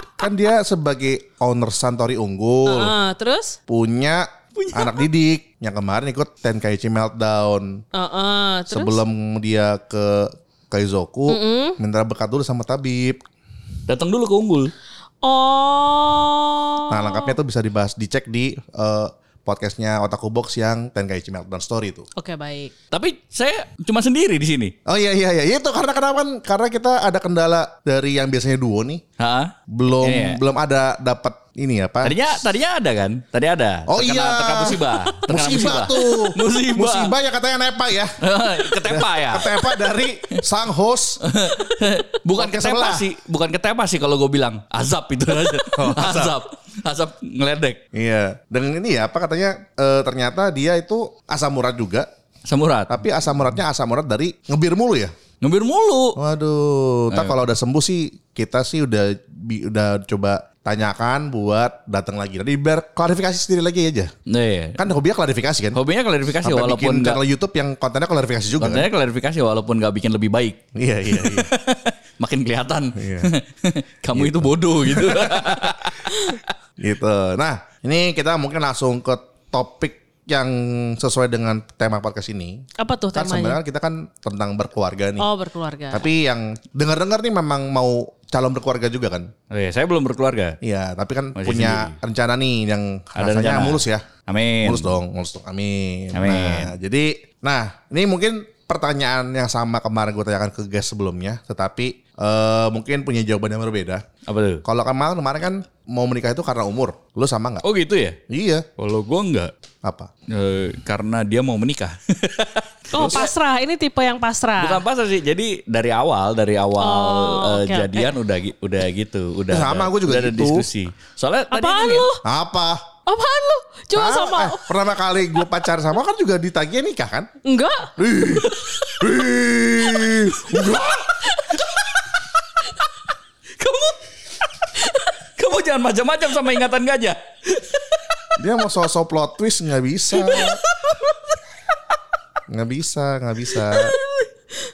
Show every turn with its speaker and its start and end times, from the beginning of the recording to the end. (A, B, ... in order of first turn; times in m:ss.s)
0:00.2-0:02.9 A
0:02.6-0:03.6 B
0:03.7-0:07.7 A
0:04.6-0:05.1 C
0:07.9-0:09.0 B
0:08.7-0:13.2 A
0:11.3-0:11.8 B
0:13.9-0:14.7 C
0:15.2-0:17.3 B
0:16.9-0:22.0 A
0:22.2-0:22.7 B
0:22.9-0:24.7 C
0:24.8-0:29.0 A
0:29.2-0:30.4 C
0:29.7-0:32.3 A
0:32.0-0:37.1 C
0:33.9-0:41.2 A
0:38.2-0:39.9 C
0:41.3-0:47.8 C
0:42.4-0:43.1 A
0:45.8-0:46.4 A
0:47.9-0:52.1 A
0:52.4-0:53.0 C
0:52.9-0:55.1 A
0:55.4-0:56.2 C
0:56.2-1:04.1 A
0:57.1-0:57.4 C
1:04.3-1:04.8 C
1:04.8-1:05.8 A
1:05.7-1:07.2 C
1:06.4-1:08.9 A
1:08.6-1:16.4 C
1:10.7-1:11.5 A
1:12.9-1:13.3 A
1:14.1-1:15.8 A
1:16.8-1:22.6 A
1:22.8-1:23.6 B
1:23.1-1:25.3 A
1:25.2-1:26.1 B
1:25.9-1:29.3 A
1:29.5-1:30.6 C
1:30.6-1:34.0 A
1:31.4-1:31.9 C
1:33.1-1:34.9 C
1:34.6-1:44.0 A
1:36.1-1:36.7 C
1:44.3-1:44.6 C
1:44.6-1:47.6 A
1:47.6-1:48.2 C
1:48.3-1:48.6 A
1:48.8-1:49.5 C
1:49.8-1:50.1 A
1:50.3-1:53.3 C
1:52.9-1:54.8 B
1:52.9-1:53.2 A
1:54.6-2:02.1 C
1:56.8-1:58.2 B
1:59.5-2:00.6 A
2:01.5-2:02.2 B
2:02.2-2:02.8 A
2:03.1-2:04.7 B
2:03.9-2:07.3 A
2:07.4-2:07.9 B
2:08.0-2:11.0 A
2:08.4-2:09.0 C
2:09.9-2:12.0 C
2:11.2-2:11.6 B
2:13.6-2:14.0 C
2:14.8-2:18.0 C
2:18.4-2:20.6 A
2:20.1-2:21.2 C
2:22.5-2:24.0 A
2:23.6-2:24.1 C